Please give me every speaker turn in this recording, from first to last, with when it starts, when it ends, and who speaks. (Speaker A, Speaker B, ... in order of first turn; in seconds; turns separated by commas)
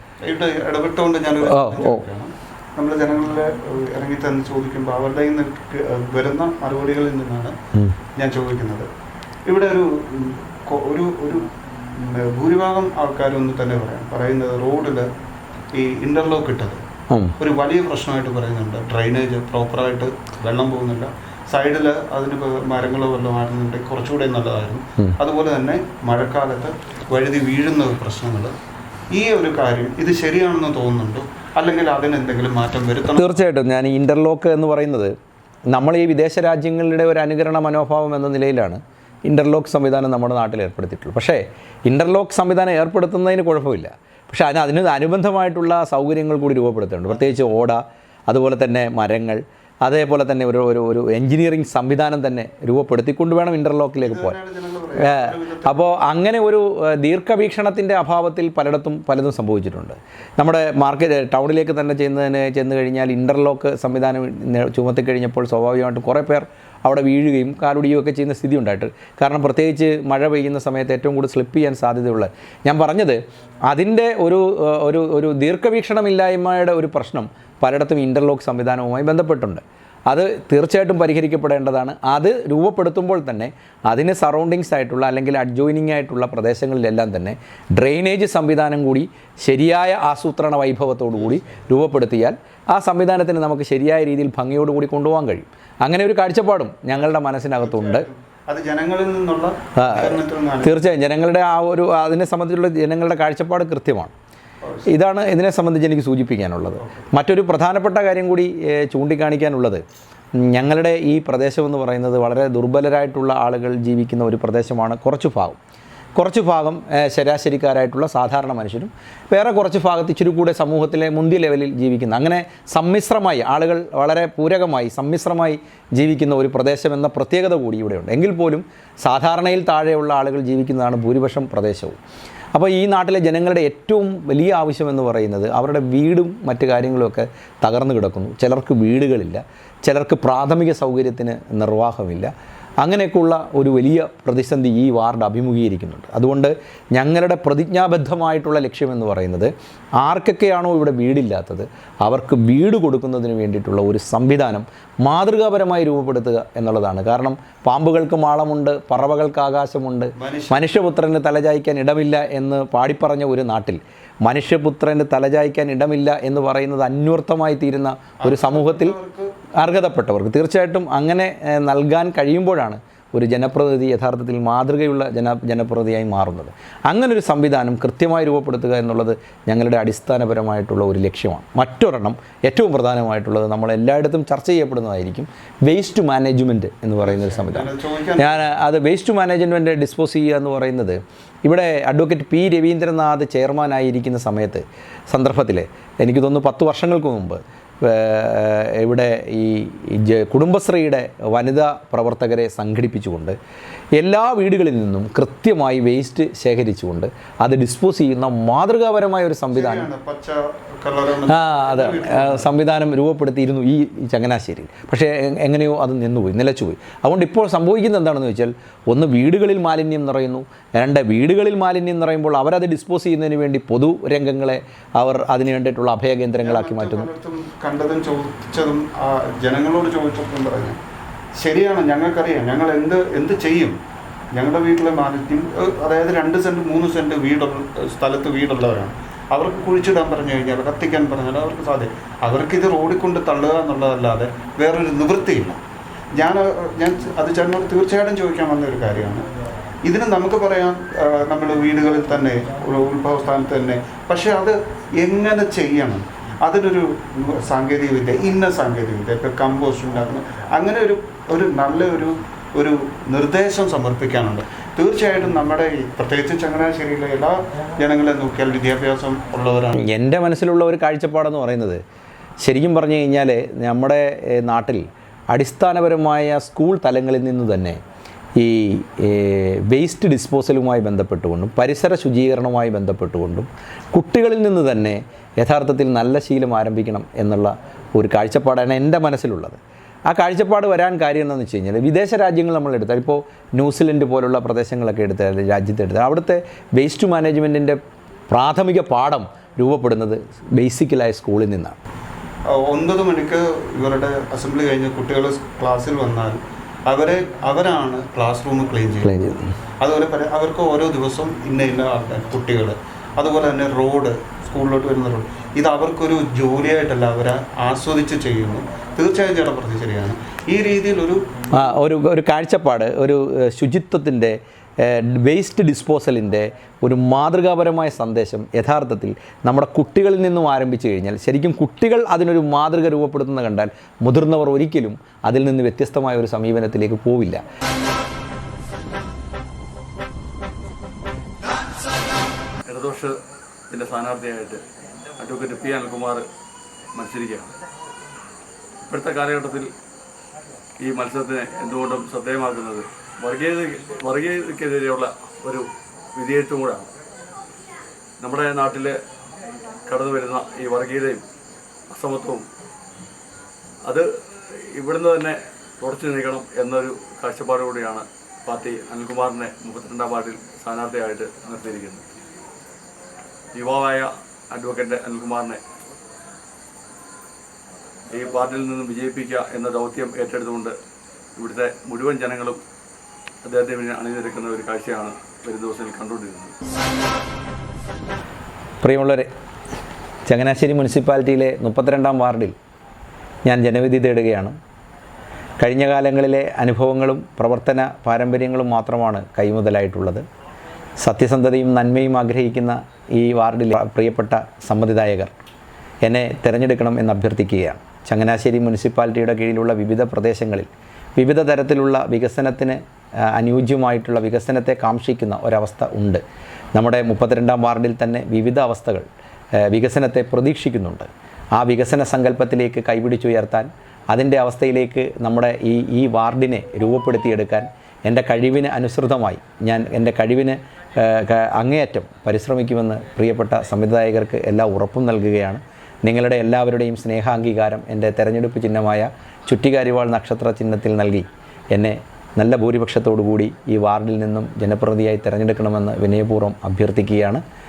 Speaker A: 0.2-7.5, Speaker B: 1.4-2.0, Speaker A: 8.2-8.9, Speaker A: 9.5-15.1, Speaker A: 15.7-16.8, Speaker B: 17.1-17.4, Speaker A: 17.4-28.5, Speaker A: 29.1-33.3, Speaker B: 33.1-35.1, Speaker B: 35.7-54.4, Speaker A: 54.0-55.8, Speaker B: 55.0-98.1, Speaker A: 97.6-100.7, Speaker B: 99.8-104.1, Speaker B: 104.9-109.8, Speaker A: 106.8-107.1, Speaker B: 110.4-115.6, Speaker B: 116.2-132.0, Speaker B: 132.5-142.3, Speaker B: 142.8-169.0, Speaker A: 160.2-160.6, Speaker A: 168.2-169.3, Speaker B: 169.6-203.4, Speaker A: 187.0-188.4, Speaker B: 203.9-209.9, Speaker A: 209.5-212.5, Speaker B: 211.3-227.1, Speaker A: 226.4-230.8, Speaker A: 231.4-233.8, Speaker A: 234.3-245.6, Speaker A: 246.1-249.2, Speaker A: 249.8-269.9, Speaker B: 269.8-271.8, Speaker B: 272.4-277.8, Speaker B: 278.4-297.8, Speaker B: 298.3-301.8, Speaker A: 302.5-309.2, Speaker B: 309.0-309.5, Speaker A: 309.8-321.2, Speaker B: 321.5-337.4, Speaker C: 342.7-343.1, Speaker C: 343.7-344.6, Speaker C: 345.2-346.2, Speaker C: 346.9-347.5, Speaker C: 348.9-349.7, Speaker C: 350.8-356.9, Speaker C: 358.2-359.0, Speaker C: 359.9-361.2, Speaker C: 361.9-362.4, Speaker C: 363.8-372.1, Speaker C: 373.5-375.6, Speaker C: 378.1-380.8, Speaker C: 381.4-382.6, Speaker C: 383.4-386.5, Speaker B: 388.8-389.3, Speaker B: 390.3-392.6, Speaker B: 393.4-394.6, Speaker B: 395.6-400.2, Speaker B: 401.0-405.3, Speaker B: 406.1-416.2, Speaker B: 416.8-419.1, Speaker B: 419.6-447.4